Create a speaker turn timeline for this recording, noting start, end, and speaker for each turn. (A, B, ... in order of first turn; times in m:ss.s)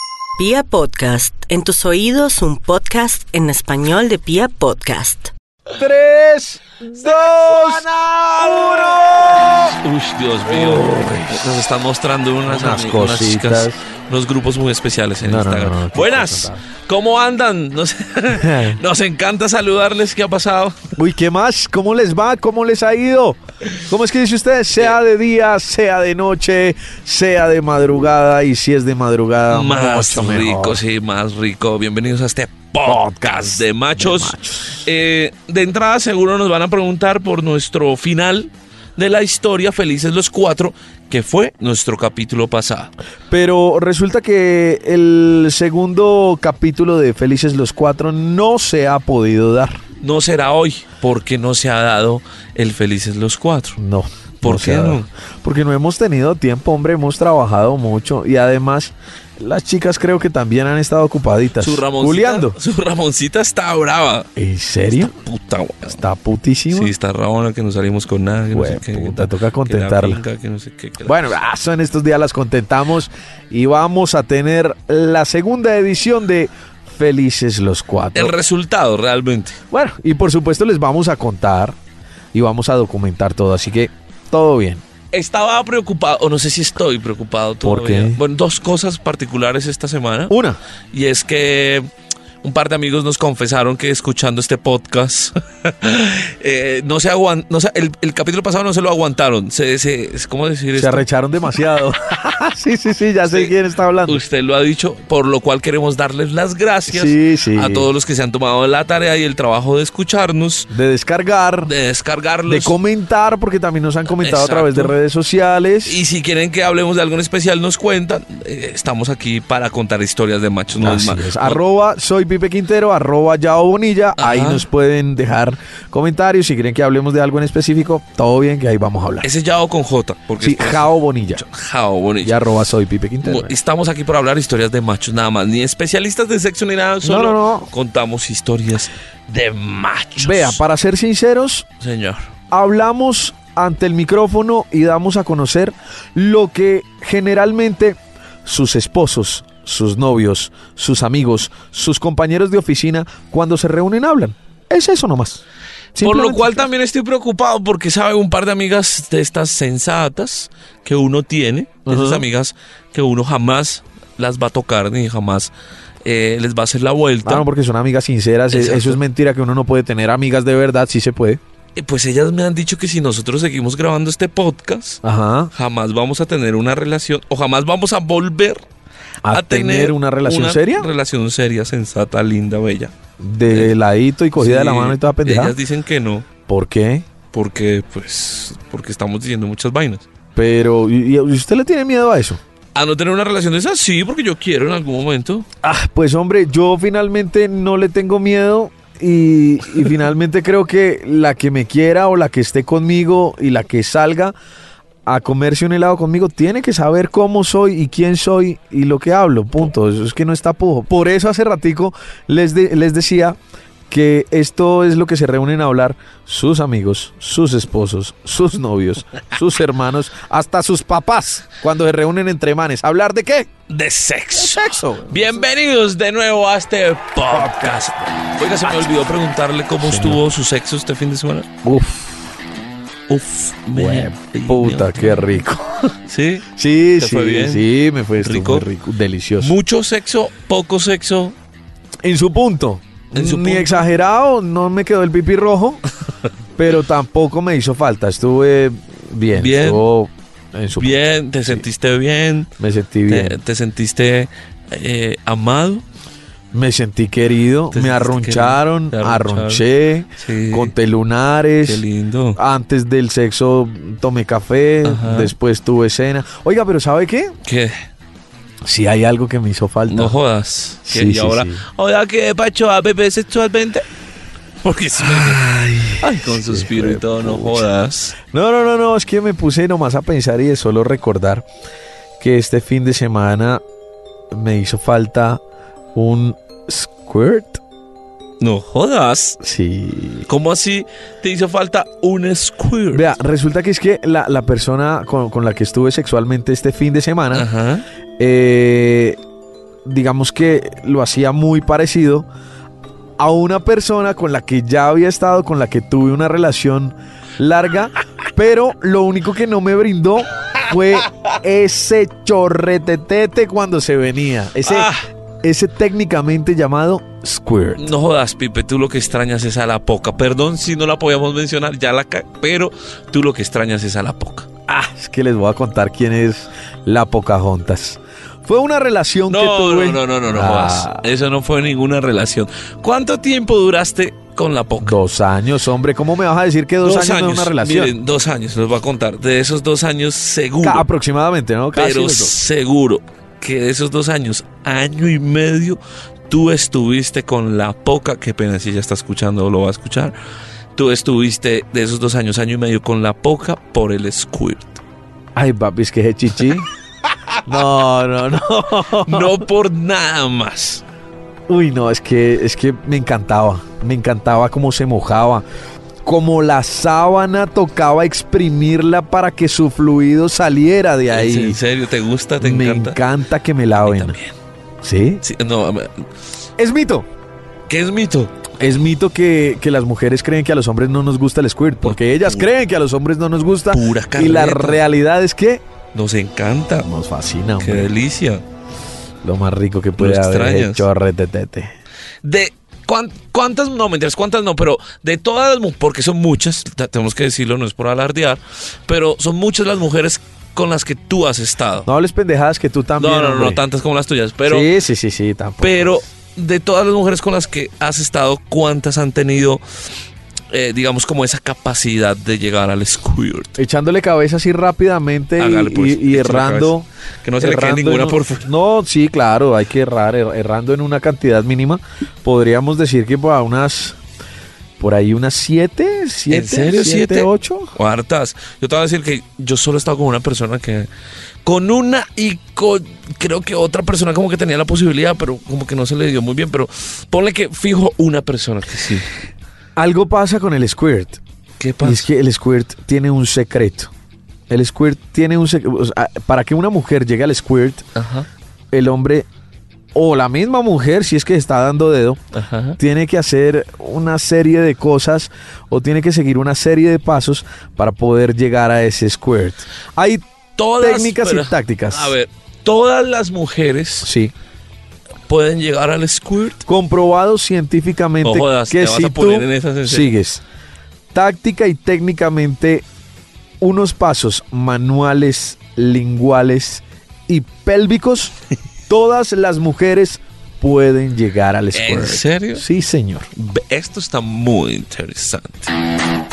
0:00.4-0:05.3 A
0:05.7-0:09.8 B
0:09.7-0:20.9 C
0:10.5-0:11.4 B
0:12.4-0:13.8 B
0:15.2-0:16.6 B
0:18.3-0:18.8 B
0:21.0-0:30.8 B
0:29.5-0:42.9 C
0:32.8-0:34.9 B
0:43.3-0:49.8 B
0:50.0-0:53.8 C
0:53.8-1:02.6 B
0:54.4-0:55.1 C
1:01.6-1:04.3 C
1:04.4-1:05.1 B
1:05.0-1:06.0 C
1:05.8-1:06.9 B
1:06.7-1:11.4 C
1:08.5-1:10.2 B
1:11.0-1:18.3 B
1:18.1-1:19.6 C
1:19.7-1:21.8 B
1:22.3-1:24.8 B
1:25.1-1:30.3 C
1:27.6-1:28.2 B
1:30.3-1:30.6 B
1:30.9-1:31.9 C
1:32.4-1:41.0 C
1:40.7-1:44.2 B
1:43.2-1:43.5 C
1:44.1-1:50.7 C
1:46.9-1:47.9 B
1:50.7-1:51.7 B
1:51.6-1:52.7 C
1:52.5-1:56.0 B
1:54.2-1:54.9 C
1:55.8-2:01.6 C
2:00.8-2:09.3 B
2:04.2-2:04.6 C
2:09.2-2:12.4 C
2:10.4-2:11.4 B
2:12.2-2:13.6 B
2:13.2-2:20.6 C
2:17.0-2:17.7 B
2:20.2-2:21.7 B
2:21.8-2:22.3 C
2:22.5-2:35.4 B
2:36.0-2:36.7 B
2:36.0-2:45.5 C
2:41.9-2:42.2 B
2:46.0-2:47.4 C
2:47.2-2:51.4 B
2:48.5-2:49.0 C
2:51.8-2:55.0 C
2:55.0-2:55.5 B
2:55.5-2:58.6 C
2:59.2-3:00.9 B
2:59.3-3:02.9 C
3:03.2-3:05.6 B
3:03.5-3:03.7 C
3:04.4-3:06.3 C
3:06.5-3:07.0 B
3:07.3-3:10.0 C
3:10.4-3:12.4 B
3:12.7-3:15.5 C
3:15.6-3:24.3 B
3:25.0-3:33.4 B
3:33.9-3:43.5 B
3:43.7-3:51.5 C
3:44.4-3:45.5 B
3:47.3-3:48.0 B
3:48.6-3:48.9 B
3:49.8-3:50.2 B
3:51.6-3:52.3 B
3:53.1-3:55.2 C
3:53.7-3:55.9 B
3:56.1-3:57.7 C
3:56.5-3:59.5 B
3:58.2-3:58.7 C
3:59.4-4:01.3 C
4:02.0-4:05.8 B
4:03.1-4:03.8 C
4:06.6-4:11.6 B
4:09.3-4:09.8 C
4:10.8-4:12.5 C
4:12.6-4:13.4 B
4:13.1-4:15.8 C
4:16.5-4:21.8 B
4:17.7-4:19.6 C
4:20.2-4:20.7 C
4:21.6-4:22.4 C
4:22.4-4:27.4 B
4:24.8-4:25.3 C
4:27.4-4:27.8 C
4:28.6-4:30.2 B
4:29.9-4:33.8 C
4:30.9-4:31.6 B
4:34.6-4:35.4 C
4:35.0-4:37.6 B
4:36.0-4:38.2 C
4:38.2-4:41.4 B
4:42.2-4:43.6 B
4:44.3-4:45.4 B
4:45.9-4:47.6 B
4:48.4-4:49.4 C
4:49.4-4:50.3 B
4:50.3-4:53.1 C
4:52.9-4:57.5 B
4:57.3-4:57.8 C
4:58.2-4:59.2 B
4:59.8-5:02.3 B
5:03.2-5:14.9 B
5:14.6-5:15.0 C
5:15.4-5:17.8 B
5:17.8-5:24.5 C
5:24.7-5:31.0 B
5:29.3-5:35.0 C
5:34.8-5:37.9 B
5:36.8-5:40.8 C
5:40.6-5:42.4 B
5:41.8-5:50.1 C
5:50.8-5:54.8 C
5:55.3-5:56.7 B
5:57.4-5:59.4 B
5:59.0-6:00.8 C
6:01.5-6:05.4 B
6:06.0-6:11.6 B
6:11.1-6:13.0 C
6:12.4-6:14.2 B
6:13.9-6:14.3 C
6:14.8-6:15.2 B
6:15.2-6:16.1 C
6:16.6-6:17.1 B
6:17.7-6:18.3 C
6:18.6-6:25.6 B
6:21.8-6:22.5 C
6:23.7-6:24.8 C
6:25.9-6:26.9 C
6:26.8-6:27.9 B
6:27.6-6:28.4 C
6:29.2-6:31.7 B
6:30.0-6:30.9 C
6:32.2-6:41.9 C
6:41.8-6:43.6 B
6:43.0-6:44.7 C
6:44.4-6:46.0 B
6:45.6-6:49.6 C
6:50.5-6:53.6 C
6:53.6-6:56.9 B
6:55.4-6:56.7 C
6:57.2-6:58.5 C
6:57.4-7:04.0 B
7:04.8-7:07.7 B
7:06.3-7:10.9 C
7:11.4-7:19.0 C
7:19.8-7:21.2 B
7:21.6-7:22.1 C
7:21.8-7:23.9 B
7:24.5-7:27.8 B
7:28.0-7:28.3 C
7:28.7-7:29.3 B
7:29.9-7:32.2 B
7:32.3-7:32.8 C
7:32.8-7:40.2 B
7:40.6-7:44.1 C
7:40.8-7:42.1 B
7:44.0-7:44.3 B
7:45.3-7:46.6 C
7:46.6-7:50.4 B
7:48.2-7:50.1 C
7:51.1-7:52.8 B
7:53.6-7:58.3 B
7:58.9-8:03.3 B
8:01.7-8:02.6 C
8:03.3-8:05.7 C